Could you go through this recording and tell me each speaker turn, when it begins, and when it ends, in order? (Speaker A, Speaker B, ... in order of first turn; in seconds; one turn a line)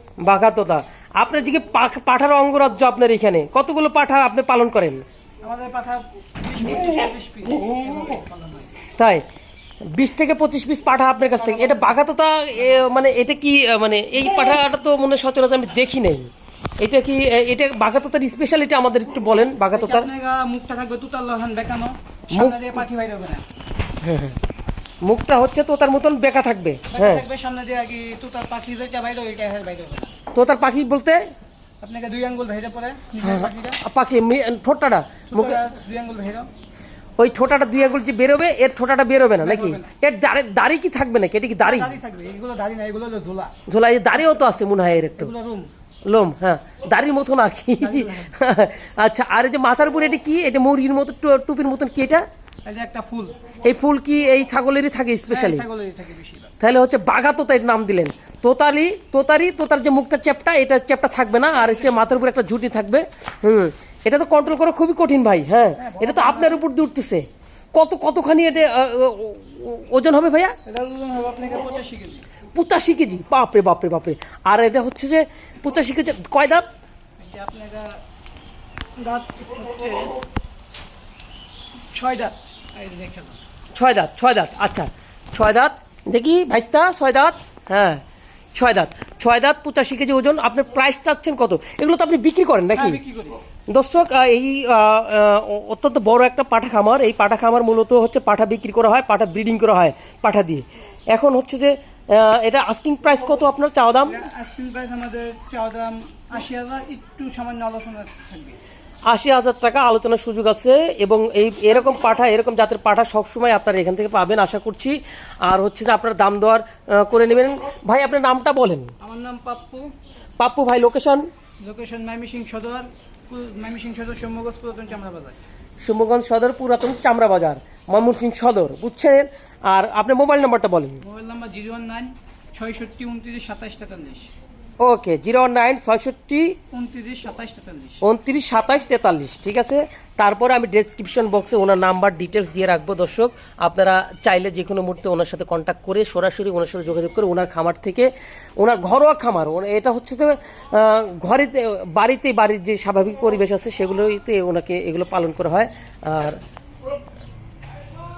Speaker A: 0.2-5.0
Speaker B: 5.4-8.8
Speaker A: 9.0-9.2
Speaker A: 9.9-20.1
Speaker B: 19.7-23.4
Speaker A: 22.3-22.8
Speaker A: 24.0-24.4
Speaker A: 25.0-27.2
Speaker B: 26.9-30.1
Speaker A: 30.3-31.3
Speaker B: 31.8-33.8
Speaker A: 33.2-35.6
Speaker B: 35.3-36.5
Speaker A: 37.2-41.9
Speaker B: 39.4-39.9
Speaker B: 41.6-43.5
Speaker A: 43.7-45.3
Speaker B: 45.1-45.7
Speaker A: 46.1-52.2
Speaker B: 47.8-48.3
Speaker B: 52.6-53.4
Speaker A: 53.6-55.6
Speaker B: 55.3-56.5
Speaker A: 56.6-70.5
Speaker B: 61.6-62.1
Speaker B: 65.8-66.6
Speaker B: 70.7-72.2
Speaker A: 72.5-76.7
Speaker B: 77.2-78.0
Speaker B: 79.0-80.2
Speaker B: 81.9-83.4
Speaker A: 83.7-88.0
Speaker A: 88.5-93.0
Speaker B: 92.7-93.4
Speaker A: 93.7-104.2
Speaker B: 104.0-108.6
Speaker A: 109.1-118.9
Speaker B: 119.0-119.9
Speaker A: 120.4-121.3
Speaker B: 121.6-125.4
Speaker A: 125.8-131.0
Speaker B: 131.0-134.3
Speaker A: 134.8-136.5
Speaker B: 136.7-138.0
Speaker A: 138.0-156.4